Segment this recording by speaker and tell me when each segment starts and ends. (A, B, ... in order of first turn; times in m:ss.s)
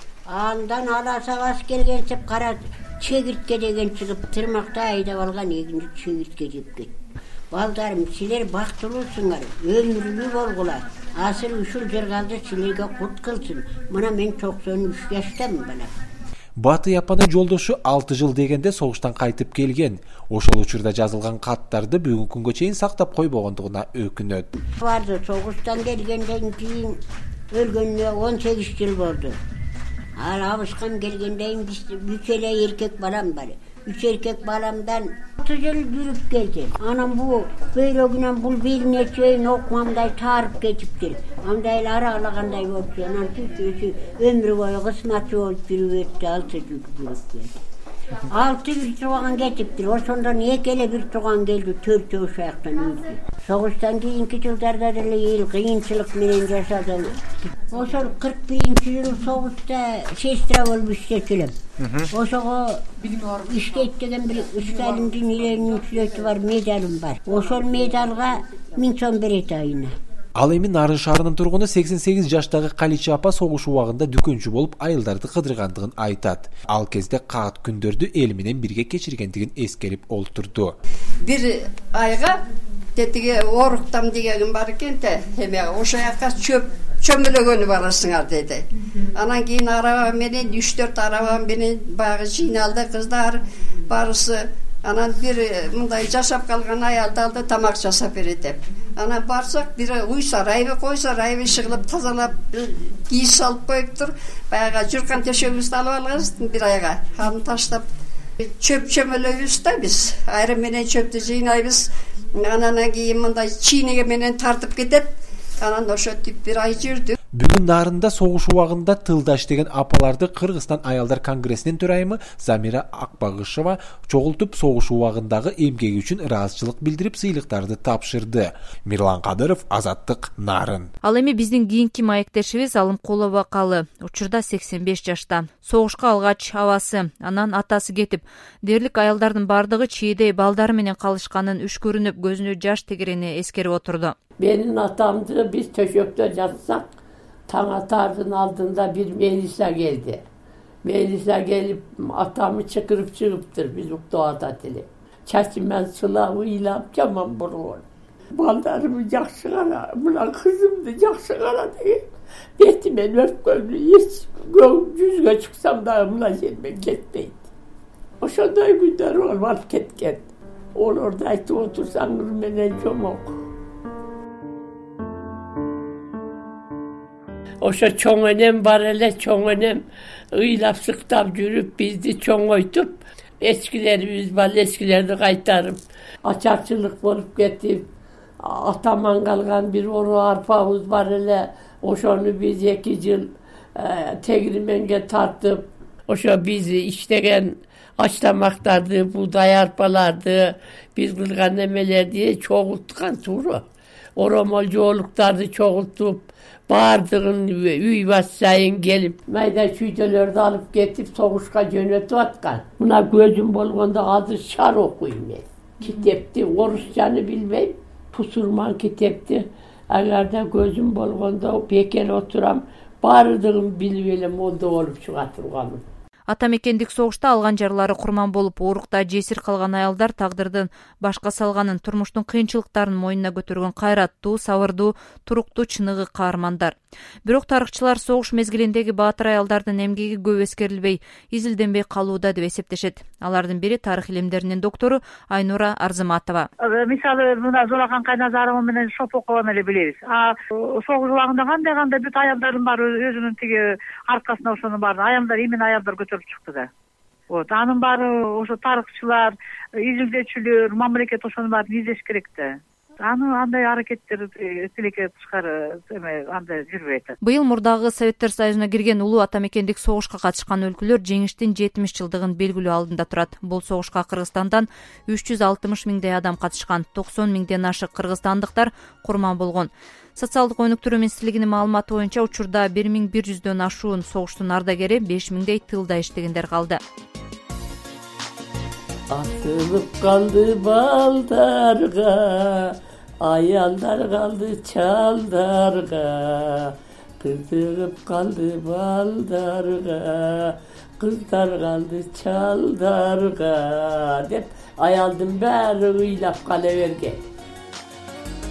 0:00.3-0:06.9 A
0:07.5-0:15.9 A
0:16.6-0:24.5 B
0:24.6-0:27.0 A
0:27.5-0:29.4 A
0:30.2-0:47.5 A
0:48.3-0:57.2 A
0:57.7-1:01.5 A
1:02.1-1:09.9 A
1:10.4-1:20.8 B
1:21.2-1:22.4 C
1:23.0-1:28.6 C
1:29.2-1:47.8 C
1:48.5-1:55.1 C
1:55.6-1:57.1 C
1:57.4-2:10.9 B
2:11.0-2:24.1 D
2:24.4-2:26.9 E
2:27.5-2:30.2 E
2:30.8-2:42.0 E
2:42.6-2:47.5 E
2:48.2-2:53.4 E
2:57.6-3:07.9 E
3:08.4-3:45.8 E
3:46.3-4:06.5 D
4:06.6-4:16.7 F
4:17.3-4:27.1 F
4:27.2-4:46.8 D
4:49.1-5:07.2 E